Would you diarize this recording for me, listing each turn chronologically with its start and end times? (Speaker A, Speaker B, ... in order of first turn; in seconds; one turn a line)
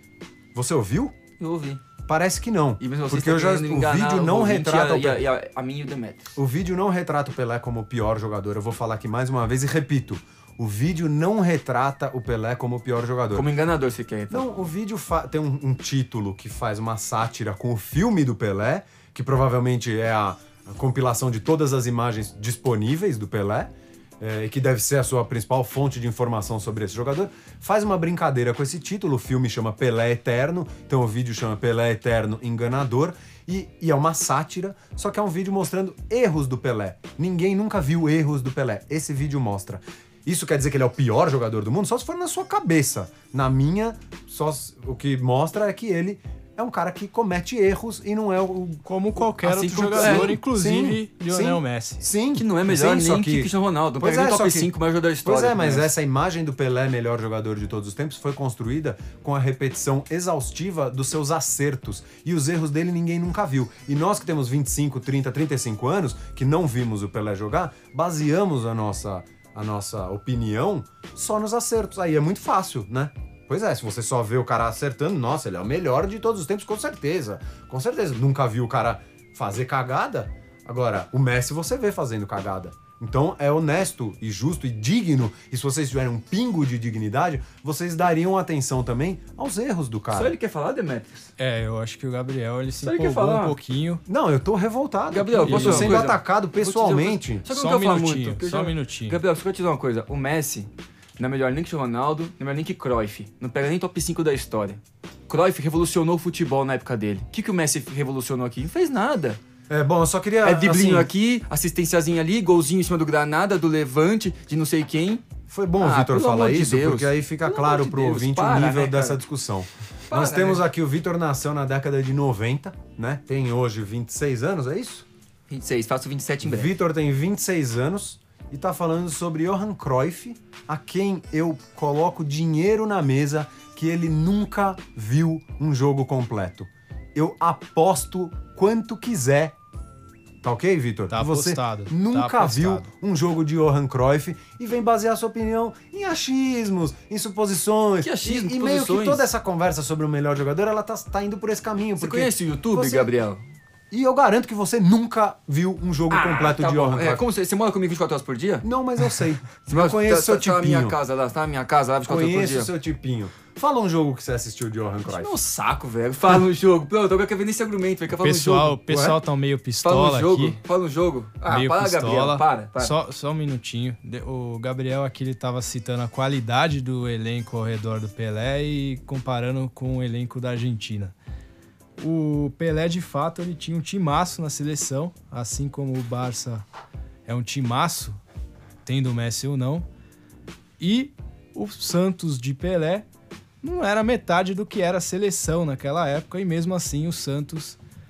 Speaker A: 0.5-1.1
Speaker B: 1.4-1.8
Speaker A: 2.1-5.2
Speaker B: 2.8-6.4
Speaker A: 6.4-13.5
Speaker B: 13.3-14.5
Speaker A: 14.3-48.9
Speaker C: 48.9-52.0
Speaker B: 49.4-50.4
Speaker A: 49.8-54.7
Speaker B: 52.3-55.9
Speaker A: 55.2-90.3
Speaker B: 90.1-91.3
Speaker C: 91.4-94.0
Speaker B: 92.8-93.6
Speaker A: 94.1-97.5
Speaker B: 95.1-109.4
Speaker C: 95.4-96.1
Speaker C: 97.5-99.2
Speaker A: 109.7-111.1
Speaker B: 110.4-115.2
Speaker A: 115.5-125.1
Speaker B: 115.8-119.2
Speaker B: 120.1-120.7
Speaker B: 125.5-126.7
Speaker A: 126.4-139.6
Speaker A: 140.4-153.1
Speaker C: 141.1-142.9
Speaker B: 148.0-149.2
Speaker B: 152.0-153.4
Speaker A: 153.9-157.2
Speaker B: 156.1-158.7
Speaker A: 158.6-161.0
Speaker B: 159.7-162.7
Speaker A: 162.0-165.4
Speaker B: 165.1-168.8
Speaker C: 168.2-170.6
Speaker A: 168.9-169.2
Speaker B: 169.8-172.9
Speaker C: 171.5-181.1
Speaker C: 182.0-186.6
Speaker C: 187.3-188.2
Speaker C: 188.8-189.9
Speaker C: 190.8-193.1
Speaker C: 193.6-197.8